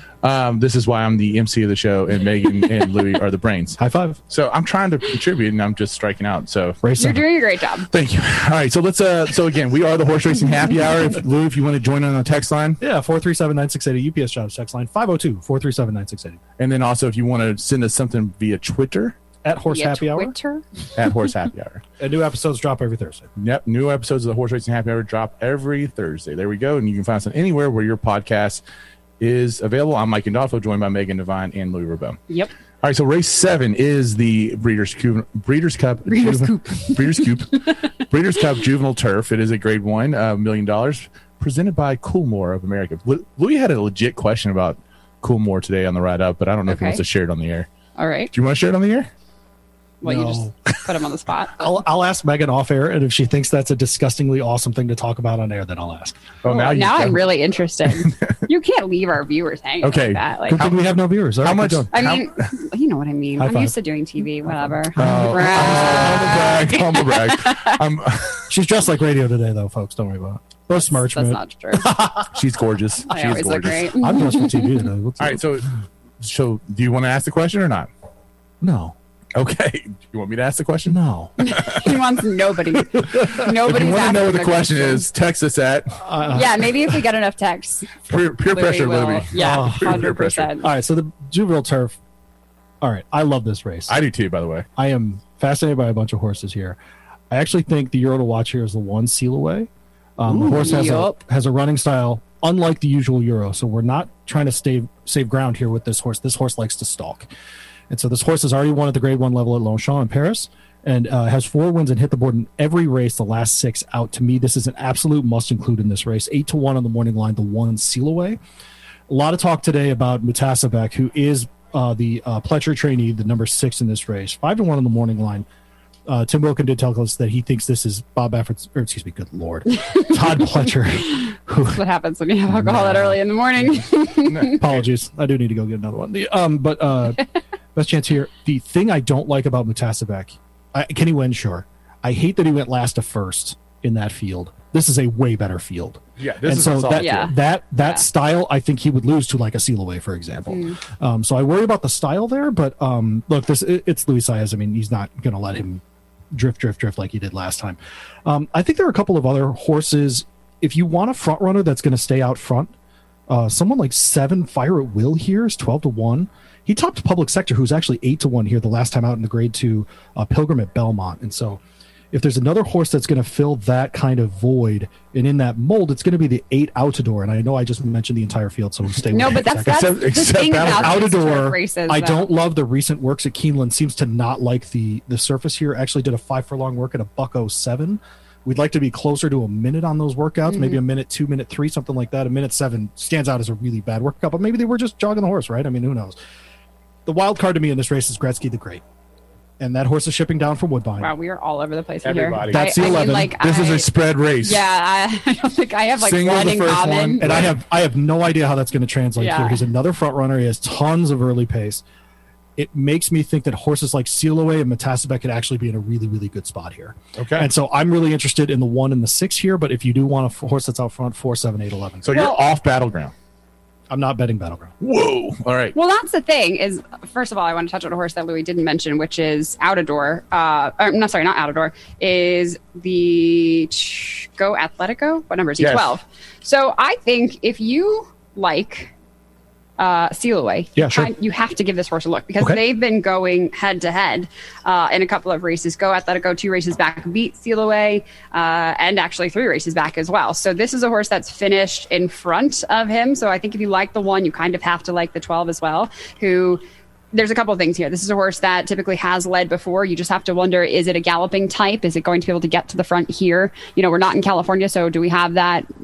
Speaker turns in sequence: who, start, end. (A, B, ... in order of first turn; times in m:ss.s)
0:00.2-0:03.8 A
0:03.8-0:04.2 B
0:04.3-0:06.8 A
0:06.8-0:07.2 B
0:07.0-0:07.9 C
0:07.9-0:12.8 A
0:12.8-0:16.4 B
0:16.6-0:19.2 A
0:19.4-0:20.3 B
0:19.7-0:20.6 C
0:21.0-0:21.8 A
0:22.0-0:23.3 B
0:23.4-0:28.6 A
0:29.2-0:32.2 A
0:32.8-0:47.7 A
0:36.1-0:37.8 C
0:46.7-0:47.0 C
0:48.0-0:48.3 C
0:48.3-0:49.1 A
0:50.0-0:51.7 C
0:50.0-0:50.8 B
0:51.6-0:56.2 B
0:56.4-0:57.2 A
0:56.5-1:00.6 C
0:57.9-0:58.4 A
0:59.8-1:00.8 A
1:00.5-1:01.9 B
1:01.4-1:02.4 A
1:01.9-1:07.8 C
1:03.4-1:03.7 B
1:05.0-1:06.4 B
1:05.0-1:08.5 A
1:08.5-1:12.3 B
1:10.7-1:11.9 C
1:12.3-1:13.9 A
1:13.1-1:14.9 C
1:14.0-1:15.4 B
1:15.2-1:15.7 A
1:16.2-1:17.9 A
1:18.6-1:18.9 B
1:19.4-1:22.0 A
1:20.9-1:21.3 B
1:21.4-1:25.1 C
1:23.0-1:23.5 B
1:23.0-1:26.0 A
1:26.0-1:26.7 B
1:26.3-1:30.7 C
1:28.1-1:30.5 A
1:29.4-1:30.0 B
1:30.6-1:32.0 B
1:32.8-1:34.0 B
1:33.9-1:34.7 A
1:34.8-1:36.8 B
1:37.3-1:47.3 B
1:40.3-1:40.9 A
1:40.5-1:41.2 C
1:47.9-1:58.4 B
1:59.1-2:05.4 B
2:06.1-2:11.8 B
2:09.7-2:14.6 C
2:12.5-2:13.2 B
2:14.2-2:14.9 A
2:14.5-2:17.2 B
2:17.8-2:35.8 B
2:26.2-2:27.2 A
2:27.0-2:28.0 C
2:30.5-2:30.8 C
2:36.3-2:42.7 B
2:43.3-2:51.6 B
2:52.1-3:16.2 B
2:59.1-3:02.3 C
2:59.7-3:01.0 A
3:10.5-3:10.8 C
3:17.1-3:18.8 B
3:19.6-3:21.1 B
3:21.0-3:23.9 C
3:22.0-3:24.6 A
3:22.5-3:23.4 B
3:24.4-3:27.4 C
3:26.0-3:27.5 A
3:27.2-3:31.8 B
3:29.2-3:29.6 C
3:32.6-3:42.1 B
3:37.2-3:37.5 A
3:42.0-3:43.1 A
3:43.9-3:44.7 B
3:44.8-3:45.8 A
3:45.8-3:58.9 C
3:55.6-3:55.9 A
3:59.8-4:16.6 C
4:00.8-4:01.1 B
4:17.1-4:25.7 C